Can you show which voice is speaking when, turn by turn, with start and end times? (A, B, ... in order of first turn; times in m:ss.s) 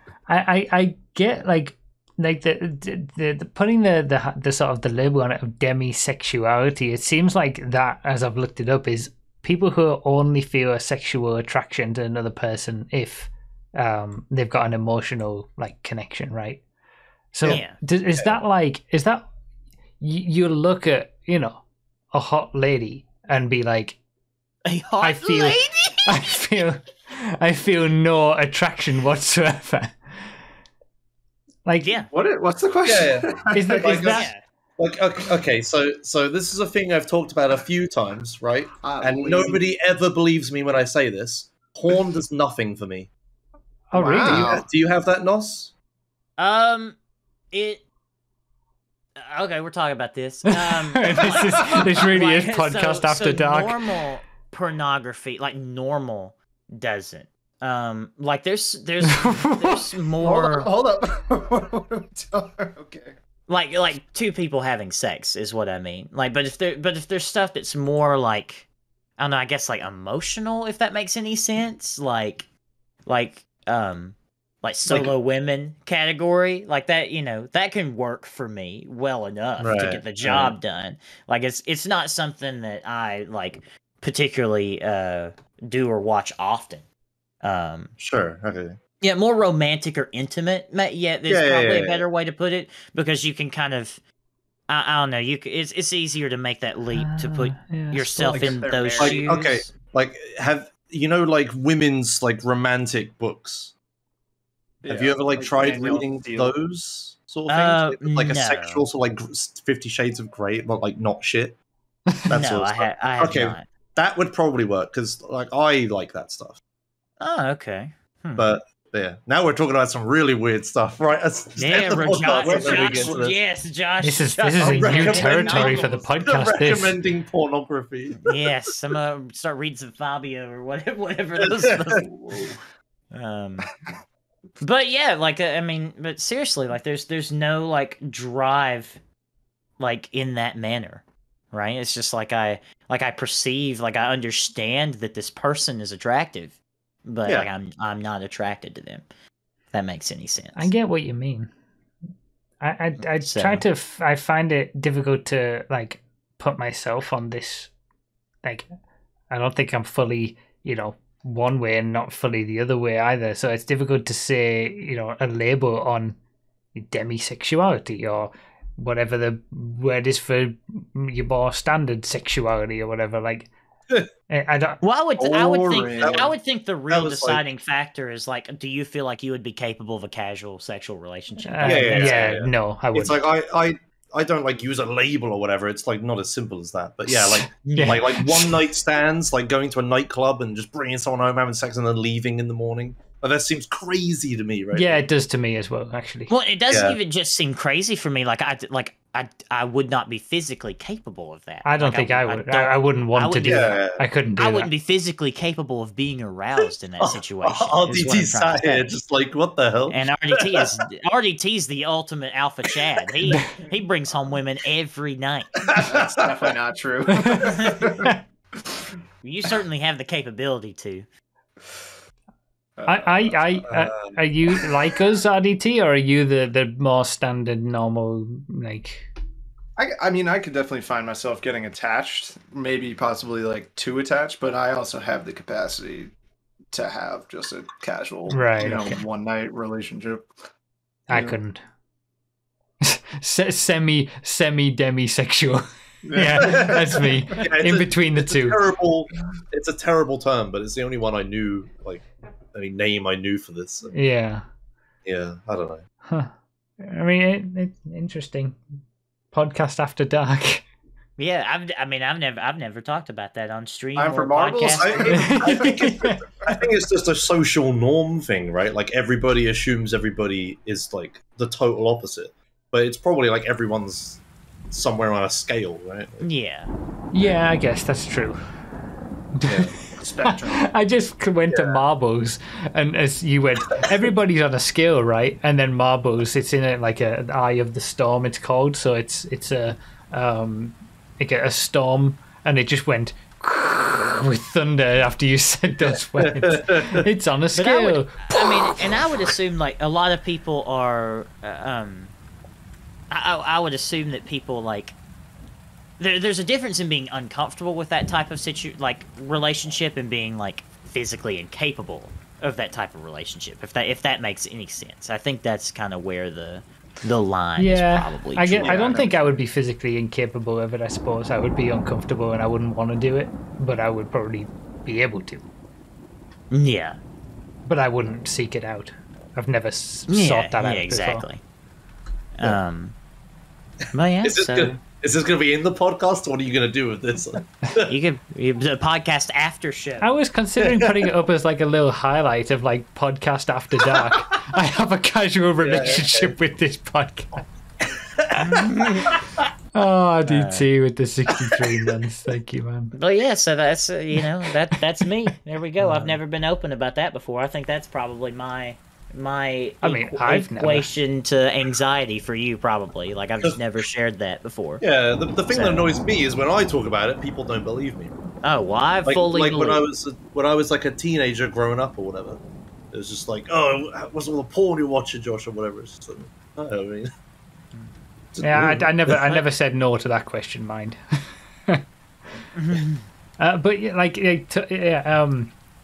0:00.3-0:16.6 A
0:17.3-0:19.3 A
0:17.5-0:17.8 B
0:20.0-0:24.0 A
0:24.6-0:26.2 B
0:25.0-0:30.2 A
0:31.6-0:32.0 A
0:31.8-0:32.1 B
0:32.1-0:34.2 C
0:32.8-0:34.2 D
0:33.5-0:34.3 A
0:34.0-0:34.4 B
0:34.8-0:43.1 D
0:38.8-0:39.6 C
0:43.9-0:44.6 A
0:43.9-0:44.6 C
0:44.2-0:45.7 D
0:46.4-0:47.0 B
0:47.5-0:47.8 B
0:49.2-1:00.7 B
0:50.5-0:53.8 A
0:59.2-0:59.8 A
1:00.2-1:03.2 C
1:03.5-1:12.5 B
1:13.0-1:26.8 B
1:14.9-1:15.1 D
1:19.6-1:20.6 D
1:27.4-1:27.9 B
1:28.0-1:28.8 D
1:29.0-1:34.0 B
1:31.3-1:32.0 D
1:34.7-1:39.7 B
1:36.9-1:38.6 A
1:38.3-1:39.3 C
1:39.0-1:43.7 D
1:44.8-1:46.5 C
1:44.9-1:51.6 D
1:45.6-1:46.0 B
1:47.5-1:48.8 B
1:52.3-1:56.6 D
1:52.3-1:53.6 B
1:57.2-1:58.5 B
1:58.4-2:03.4 D
2:01.6-2:06.0 B
2:02.4-2:03.2 C
2:04.0-2:07.0 A
2:04.6-2:08.4 D
2:08.2-2:12.1 B
2:11.4-2:11.9 D
2:12.1-2:12.6 C
2:13.1-2:13.7 B
2:14.6-2:19.0 B
2:19.8-2:29.0 B
2:29.7-2:30.7 B
2:30.6-2:31.5 A
2:32.6-2:37.7 A
2:33.0-2:33.6 B
2:39.3-2:46.2 A
2:46.7-2:53.5 A
2:54.3-2:54.8 A
2:54.8-3:02.2 B
2:55.2-2:56.3 C
2:55.6-2:56.3 D
2:56.9-2:57.4 D
3:01.4-3:03.2 A
3:01.6-3:15.0 D
3:07.1-3:08.5 A
3:07.6-3:08.2 B
3:14.7-3:16.3 A
3:16.3-3:23.7 B
3:16.7-3:17.0 D
3:21.6-3:24.7 A
3:23.4-3:24.0 D
3:24.4-3:28.9 B
3:27.0-3:30.7 D
3:29.9-3:35.6 B
3:35.6-3:36.5 D
3:35.7-3:38.1 C
3:37.4-3:38.0 B
3:39.2-3:41.0 B
3:42.8-3:43.4 C
3:42.8-3:49.1 A
3:43.7-3:44.2 D
3:49.8-3:56.1 C
3:56.7-4:00.3 C
3:58.3-3:59.0 A
4:01.1-4:01.6 A
4:02.8-4:08.6 A
4:06.0-4:07.1 C
4:06.4-4:06.8 D
4:07.3-4:13.9 D
4:13.9-4:14.4 A
4:15.0-4:15.8 D
4:16.1-4:18.6 A
4:19.3-4:20.6 A
4:21.2-4:25.2 B
4:24.0-4:25.8 C
4:24.7-4:36.2 D
4:25.2-4:26.2 A
4:36.2-4:36.7 B
4:37.1-4:38.4 A
4:39.3-4:58.7 A
4:39.5-4:39.7 D
4:39.9-4:40.7 C
4:41.5-4:41.8 D
4:55.8-4:57.0 D
4:57.5-5:02.1 B
5:03.1-5:05.0 B
5:06.0-5:19.1 B
5:17.6-5:25.4 A
5:26.5-5:27.0 B
5:27.6-5:31.2 A
5:30.1-5:31.4 B
5:32.3-5:33.0 B
5:33.9-5:34.8 B
5:34.2-5:37.9 D
5:37.8-5:40.1 B
5:40.0-5:47.4 A
5:40.6-5:40.9 D
5:45.6-5:46.3 D
5:48.2-5:48.4 D
5:48.4-5:49.2 B
5:49.7-5:52.9 A
5:50.2-5:50.7 B
5:52.9-6:04.8 B
5:55.8-5:56.2 A
5:59.8-6:00.9 A
6:04.8-6:08.2 D
6:05.5-6:05.9 B
6:08.4-6:09.8 B
6:09.0-6:12.4 D
6:12.9-6:17.1 D
6:18.3-6:19.2 D
6:18.4-6:21.0 A
6:22.5-6:23.0 B
6:23.4-6:25.5 A